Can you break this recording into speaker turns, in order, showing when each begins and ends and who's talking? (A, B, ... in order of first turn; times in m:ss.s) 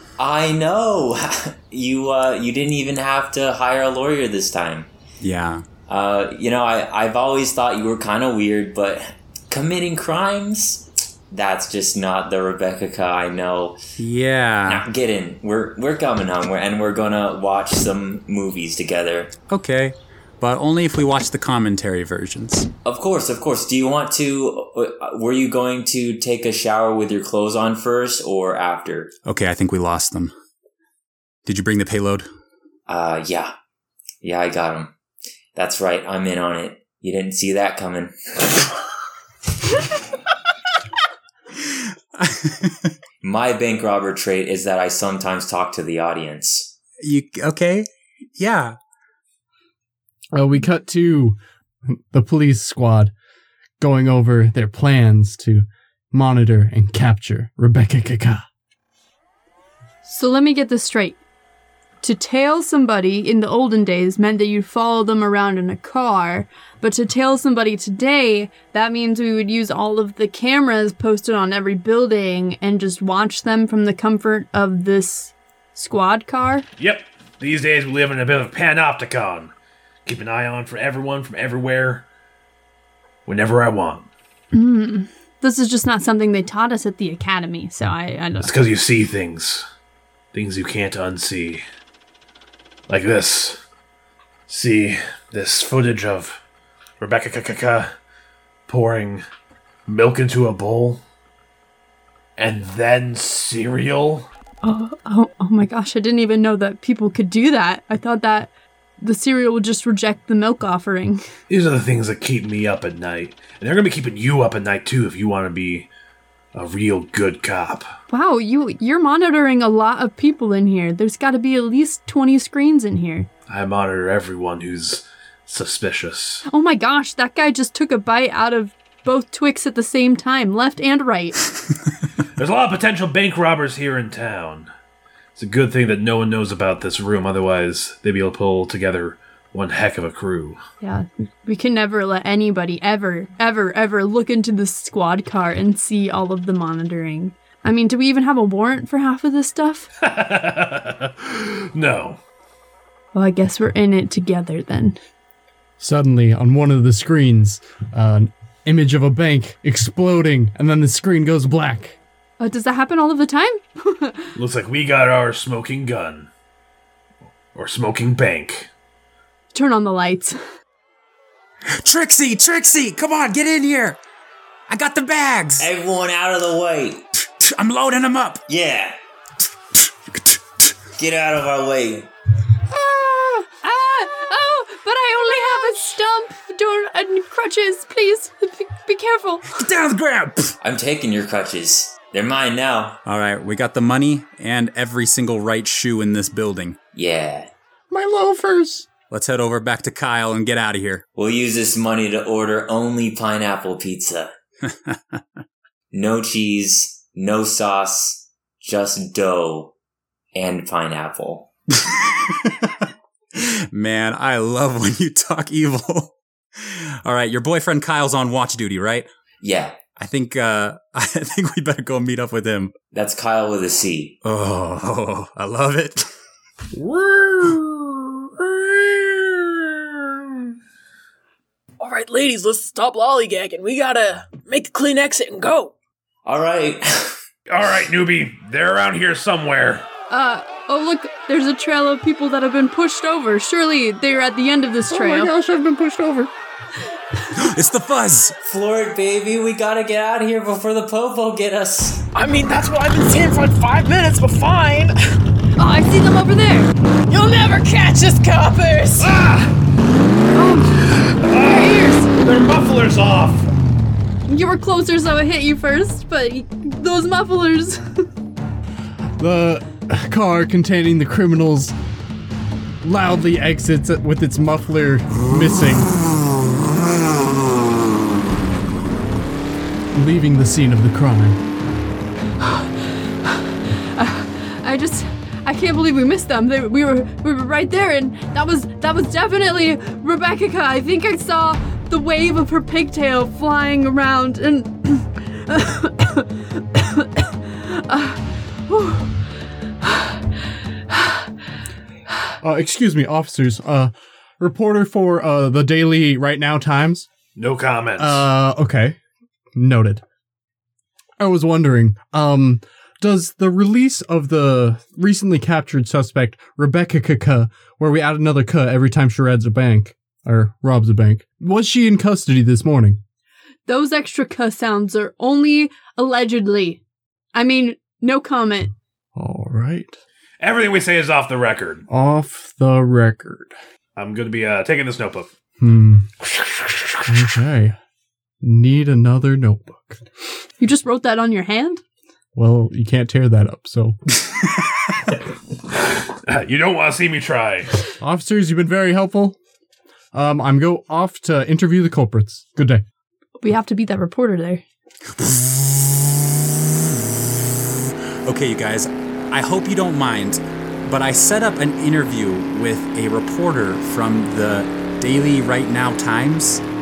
0:00.2-0:04.9 A
0:05.2-0:05.6 B
0:05.9-0:13.8 A
0:14.0-0:14.8 B
0:14.7-0:19.4 A
0:19.5-0:22.7 B
0:22.8-0:29.1 A
0:29.3-0:30.3 B
0:31.5-0:32.3 B
0:32.9-0:33.5 A
0:34.2-0:34.9 A
0:35.6-0:38.6 A
0:42.2-0:42.9 B
0:43.2-0:46.7 A
0:47.0-0:48.8 B
0:50.3-0:53.1 C
0:53.8-0:58.5 C
1:00.0-1:01.2 D
1:02.0-1:16.7 D
1:16.8-1:19.5 E
1:20.1-1:22.0 E
1:23.3-1:24.1 E
1:24.5-1:28.5 D
1:28.4-1:29.6 E
1:30.3-1:31.6 E
1:32.9-1:33.6 E
1:34.5-1:36.4 E
1:37.0-1:37.9 E
1:38.7-1:39.2 E
1:39.9-1:41.0 E
1:42.4-1:44.3 E
1:44.6-1:51.2 D
1:51.5-1:55.9 E
1:56.5-1:57.9 E
1:58.1-2:03.3 D
2:03.5-2:06.4 E
2:06.5-2:11.4 D
2:12.4-2:14.7 E
2:15.4-2:20.6 E
2:20.8-2:29.9 D
2:30.0-2:32.2 E
2:33.1-2:35.0 D
2:35.8-2:42.0 C
2:42.4-2:44.3 D
2:44.4-2:46.3 E
2:47.5-2:48.7 E
2:49.5-2:50.4 D
2:51.8-2:54.0 B
2:54.7-2:55.7 B
2:55.6-2:57.0 A
2:57.2-2:58.4 B
2:58.5-2:59.0 A
3:01.0-3:02.1 A
3:03.5-3:09.6 D
3:09.6-3:10.6 B
3:10.6-3:13.0 A
3:13.1-3:16.8 B
3:16.9-3:17.5 A
3:17.9-3:18.9 C
3:19.0-3:21.0 B
3:21.2-3:24.3 A
3:24.7-3:25.2 B
3:25.9-3:29.7 A
3:30.4-3:31.5 A
3:31.8-3:32.7 B
3:33.4-3:39.1 B
3:39.4-3:39.8 A
3:40.0-3:42.8 B
3:42.9-3:44.2 A
3:44.2-3:46.1 B
3:46.7-3:49.7 E
3:51.8-3:55.7 F
3:56.3-3:57.2 A
3:57.5-3:59.9 E
4:00.1-4:05.3 D
4:04.9-4:06.3 C
4:07.4-4:08.4 B
4:08.4-4:12.0 A
4:12.2-4:14.9 F
4:15.6-4:16.7 D
4:17.1-4:19.2 F
4:19.0-4:19.6 E
4:20.3-4:22.1 D
4:20.8-4:23.5 E
4:24.3-4:28.0 D
4:29.2-4:31.7 C
4:32.8-4:36.0 C
4:39.9-4:41.4 C
4:42.4-4:42.7 D
4:44.0-4:59.1 D
4:59.8-5:00.2 D
5:00.9-5:01.2 D
5:02.4-5:07.1 C
5:07.4-5:08.2 E
5:08.0-5:09.0 C
5:09.6-5:10.0 C
5:11.2-5:23.0 C
5:23.7-5:26.8 D
5:27.3-5:28.7 D
5:29.2-5:30.0 C
5:30.4-5:31.9 E
5:31.9-5:33.5 C
5:34.0-5:35.3 E
5:35.6-5:36.1 C
5:37.1-5:37.8 C
5:38.4-5:40.0 C
5:40.6-5:41.8 D
5:42.4-5:44.0 C
5:46.2-5:47.7 E
5:48.0-5:49.4 C
5:50.1-5:52.8 C
5:53.4-5:54.6 D
5:55.1-5:57.8 B
5:58.3-6:06.6 B